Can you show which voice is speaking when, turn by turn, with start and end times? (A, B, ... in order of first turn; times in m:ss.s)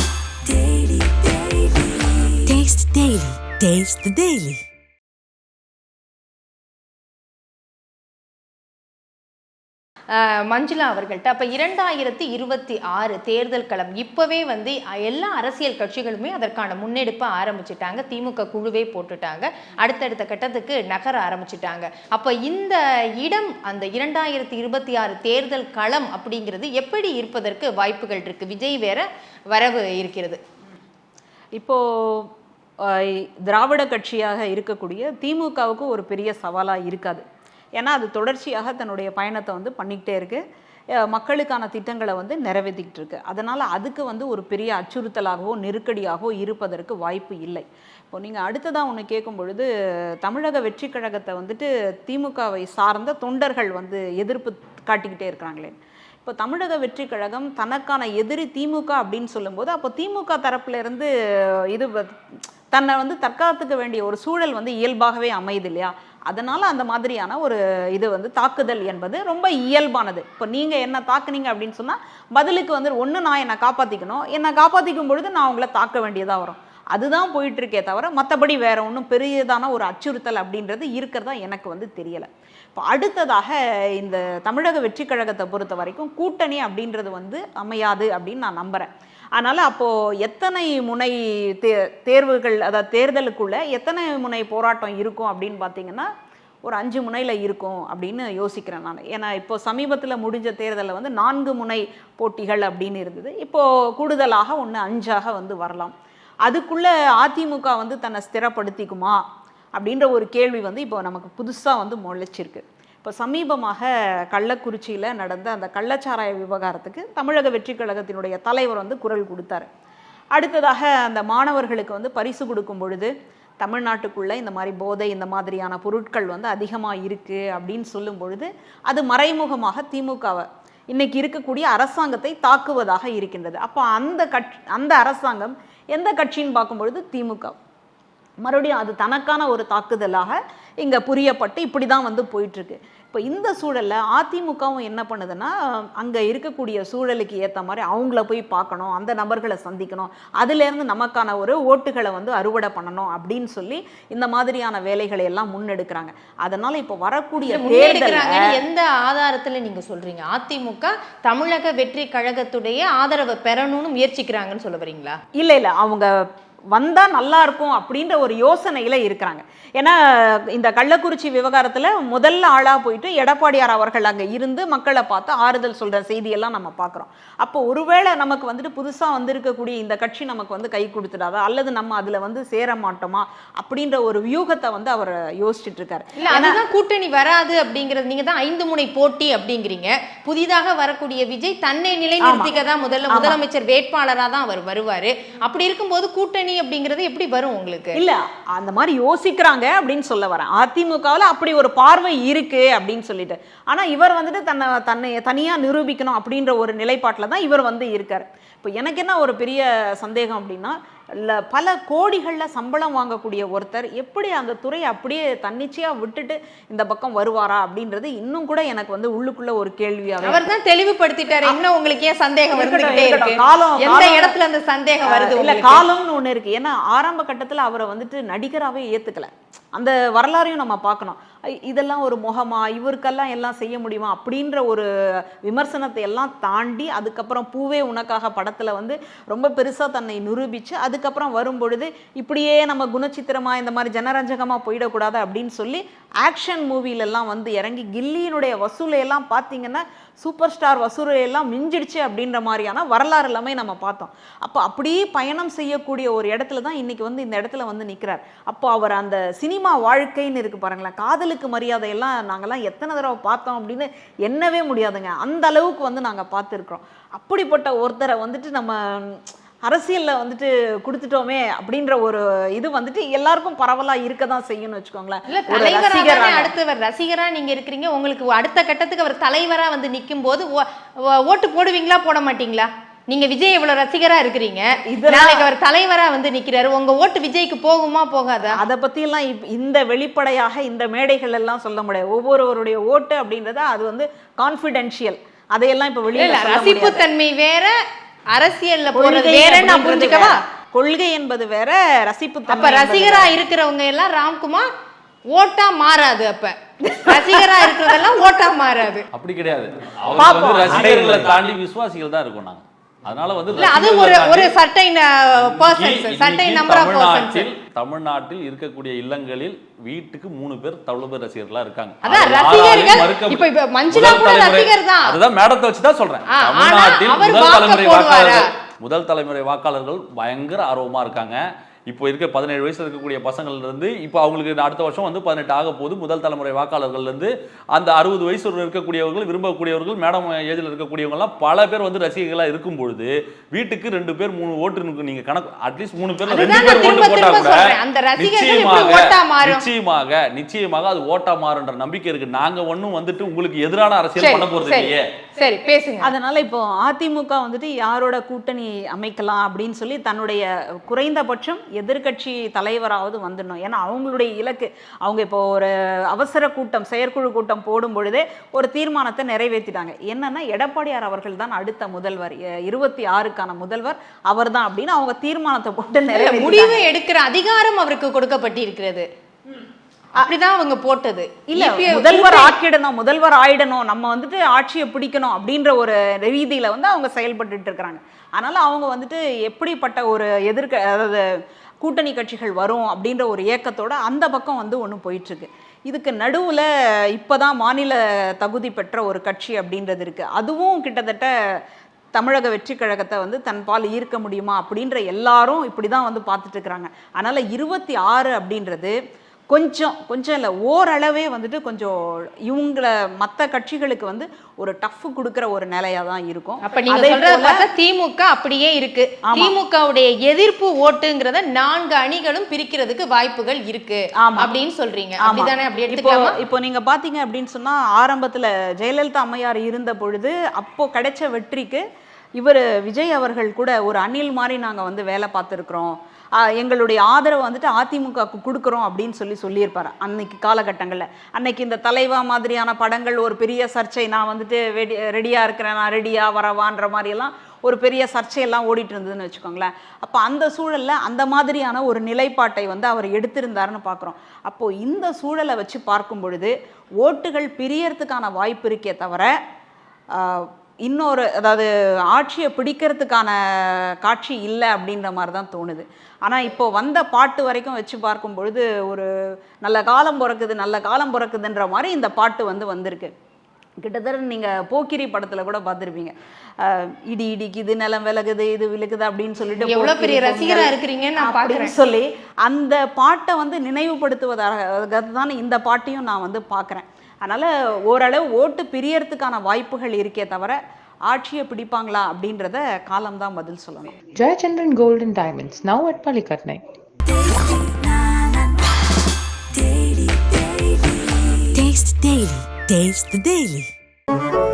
0:02.5-0:04.6 A
0:10.1-0:30.4 B
0:31.6-0:32.3 C
0:32.8-0:37.2 C
0:37.8-0:40.4 C
0:41.0-0:49.7 C
0:50.2-1:02.2 C
1:02.7-1:36.1 C
1:36.7-1:45.9 C
1:46.4-1:49.2 C
1:49.8-1:59.7 C
2:00.3-2:17.5 C
2:18.4-2:38.5 C
2:37.4-2:45.2 B
2:45.4-3:06.6 C
3:06.2-3:18.0 B
3:12.2-3:12.5 C
3:13.1-3:13.4 C
3:17.9-3:40.4 C
3:40.2-3:45.8 B
3:42.5-3:44.4 C
3:45.0-4:36.5 C
4:35.3-4:40.6 B
4:41.2-4:48.6 B
4:44.9-4:45.5 C
4:48.5-4:57.0 C
4:56.2-4:57.8 B
4:58.3-5:00.4 B
4:58.9-5:03.3 C
5:02.5-5:04.7 B
5:05.3-5:09.1 B
5:06.9-5:07.8 C
5:09.1-5:14.5 D
5:10.2-5:10.9 C
5:10.2-5:10.9 B
5:13.5-5:17.5 B
5:15.4-5:55.0 D
5:22.0-5:25.2 B
5:26.3-5:28.5 B
5:46.2-5:49.6 B
5:54.2-5:56.1 B
5:56.0-6:16.8 C
6:16.1-6:19.0 B
6:20.2-6:22.5 B
6:21.5-6:31.3 C
6:31.8-6:41.3 C
6:42.1-6:49.0 C
6:49.5-6:57.6 C
6:56.6-7:06.4 B
6:59.3-6:59.5 C
7:04.2-7:04.5 C
7:05.2-7:11.8 C
7:12.4-7:39.4 C
7:40.1-7:49.1 C
7:49.6-7:53.1 C
7:53.8-8:13.9 C
7:59.6-8:01.7 B
8:14.2-8:16.6 E
8:21.5-8:23.7 A